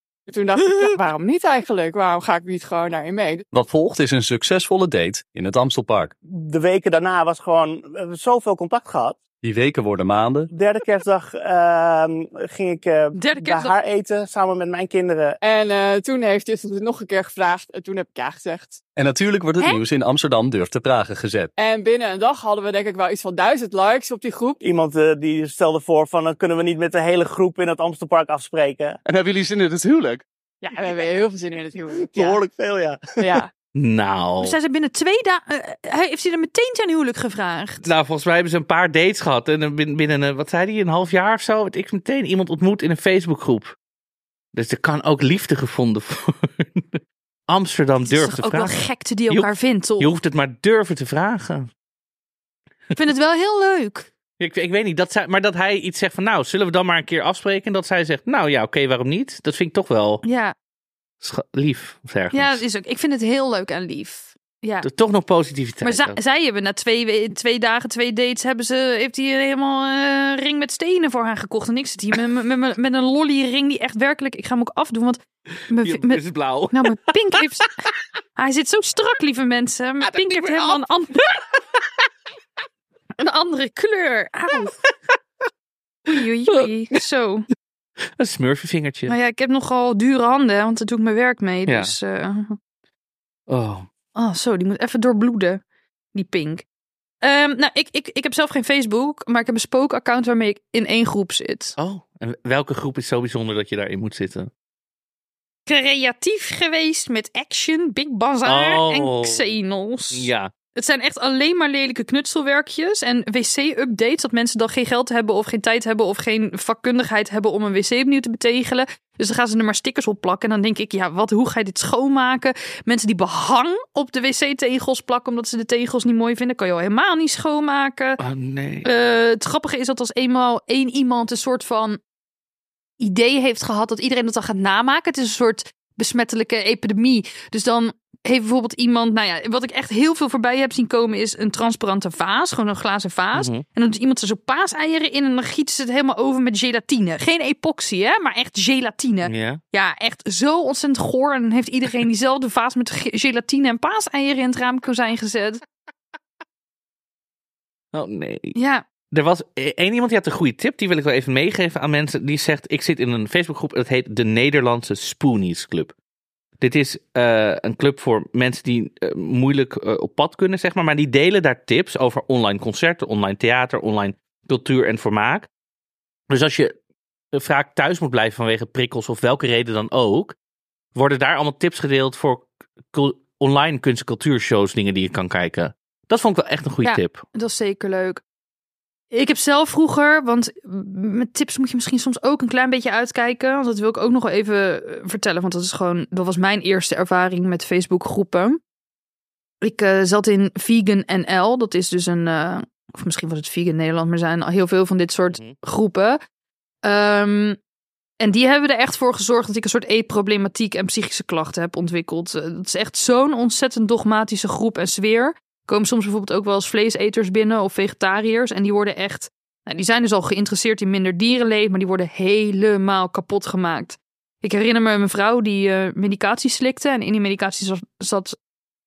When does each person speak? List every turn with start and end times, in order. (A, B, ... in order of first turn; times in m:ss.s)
0:00.3-0:03.5 A
0:03.5-0:06.1 B
0:06.3-0:09.2 C
0:09.4-0:10.5 B
0:10.5-0:15.4 C
0:13.1-0:13.8 D
0:15.4-0:18.8 A
0:19.0-0:21.5 B
0:21.6-0:24.6 A
0:24.6-0:29.0 C
0:29.1-0:30.2 B
0:30.6-0:32.4 A
0:32.0-0:33.4 C
0:33.2-0:33.5 A
0:33.8-0:34.6 E
0:34.4-0:37.9 D
0:37.8-0:43.8 E
0:44.5-0:51.7 E
0:48.0-0:50.1 D
0:53.0-0:54.1 D
0:54.4-1:00.2 E
1:00.2-1:00.5 D
1:01.2-1:02.6 E
1:02.3-1:04.9 D
1:04.8-1:06.2 E
1:05.8-1:17.8 D
1:15.8-1:17.0 E
1:18.4-1:21.4 D
1:20.0-1:20.8 E
1:23.2-1:24.8 D
1:26.1-1:27.5 D
1:28.2-1:29.2 E
1:29.1-1:32.6 D
1:31.7-1:31.9 E
1:33.5-1:33.9 E
1:34.2-1:35.6 D
1:36.1-1:36.6 D
1:37.2-1:41.8 D
1:41.8-1:44.5 E
1:45.7-2:08.2 D
1:48.4-1:49.5 E
1:50.1-1:50.5 E
2:08.2-2:08.9 E
2:08.8-2:12.0 D
2:13.0-2:35.6 D
2:23.4-2:23.6 E
2:29.2-2:29.6 E
2:37.9-2:38.6 E
2:38.6-2:38.8 D
2:39.1-2:45.9 E
2:46.6-2:55.5 E
2:56.3-2:56.8 E
2:57.3-3:00.3 E
3:01.0-3:07.2 E
3:06.8-3:08.2 D
3:09.1-3:18.6 D
3:19.6-3:26.2 D
3:25.3-3:25.6 E
3:26.8-3:27.6 D
3:28.2-3:48.4 D